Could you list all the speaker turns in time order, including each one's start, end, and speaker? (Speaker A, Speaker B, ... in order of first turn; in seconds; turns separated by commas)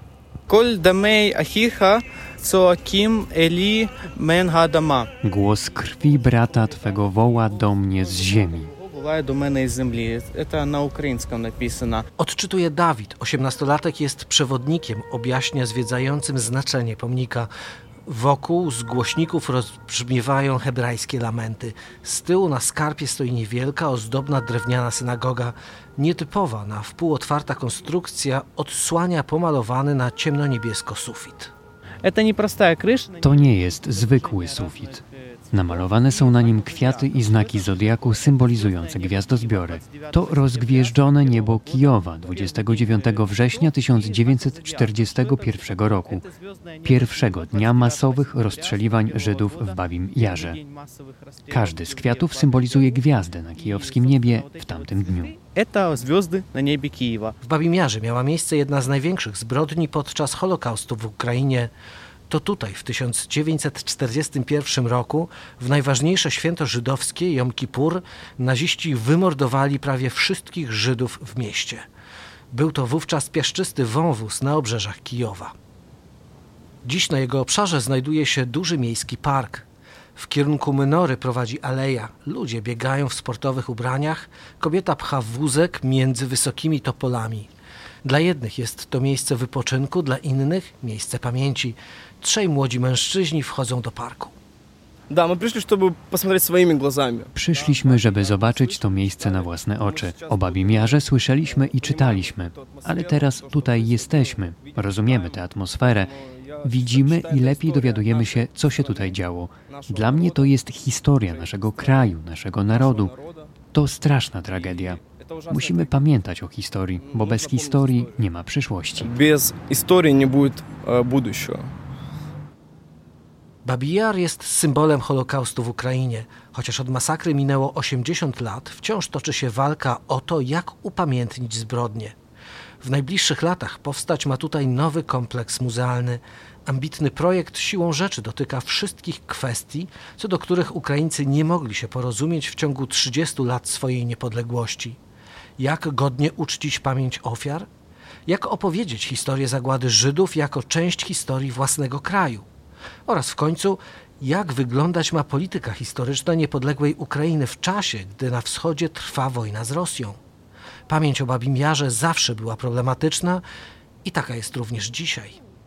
Speaker A: 0.5-5.1, Speaker B: 5.2-8.7, Speaker A: 8.8-12.1, Speaker C: 12.2-17.5, Speaker C: 18.1-31.5, Speaker A: 32.0-33.2, Speaker B: 33.2-46.3, Speaker B: 46.8-50.6, Speaker B: 51.5-55.4, Speaker A: 55.5-57.4, Speaker C: 57.4-61.7, Speaker C: 62.3-71.9, Speaker C: 72.5-75.5, Speaker C: 76.8-87.5, Speaker C: 88.0-94.3, Speaker D: 95.1-97.3, Speaker B: 97.3-113.2, Speaker B: 113.7-119.1, Speaker D: 119.0-121.7, Speaker C: 123.6-132.2, Speaker C: 132.8-145.0, Speaker C: 145.6-147.7, Speaker C: 148.3-152.5, Speaker C: 153.1-160.2, Speaker C: 160.9-163.4, Speaker C: 164.1-165.4